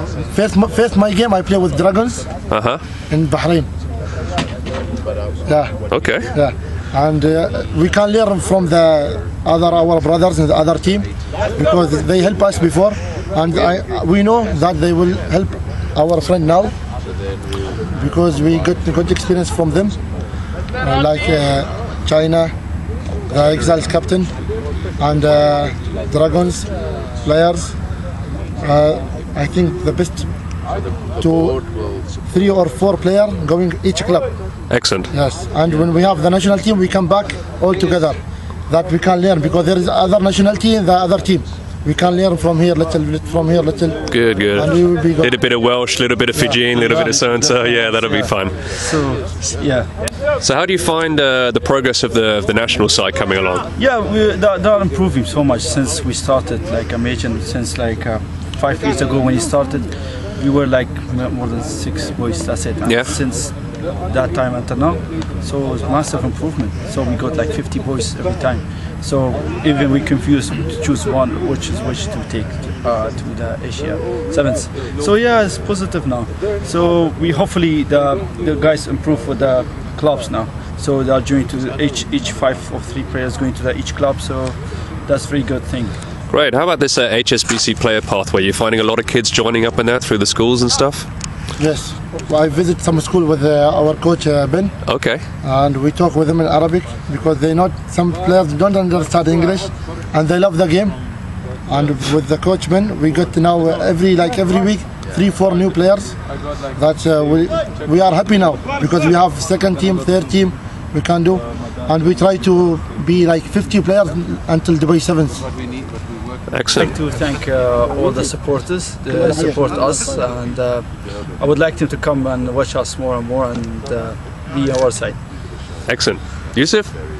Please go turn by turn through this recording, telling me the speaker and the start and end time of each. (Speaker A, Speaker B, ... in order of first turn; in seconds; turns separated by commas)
Speaker A: 0.3-2.3, Speaker B: 2.5-2.8, Speaker A: 3.1-3.7, Speaker A: 5.5-5.7, Speaker B: 5.9-6.3, Speaker A: 6.3-16.7, Speaker A: 17.9-20.0, Speaker A: 20.8-22.5, Speaker A: 23.3-24.3, Speaker A: 25.0-26.7, Speaker A: 27.2-27.7, Speaker A: 28.6-30.3, Speaker A: 31.2-31.6, Speaker A: 32.3-34.3, Speaker B: 34.7-35.1, Speaker A: 35.1-38.2, Speaker A: 38.7-45.3, Speaker B: 44.1-48.5, Speaker C: 46.7-49.9, Speaker B: 50.4-53.7, Speaker C: 53.8-63.5, Speaker B: 62.9-63.1, Speaker C: 64.1-84.5, Speaker C: 85.0-86.0, Speaker B: 86.3-91.1, Speaker A: 91.6-94.7, Speaker B: 94.8-95.2, Speaker A: 95.4-101.0, Speaker A: 101.7-106.1, Speaker A: 106.8-115.5, Speaker B: 116.5-116.9, Speaker C: 116.7-125.2, Speaker A: 119.1-119.6, Speaker B: 125.9-126.9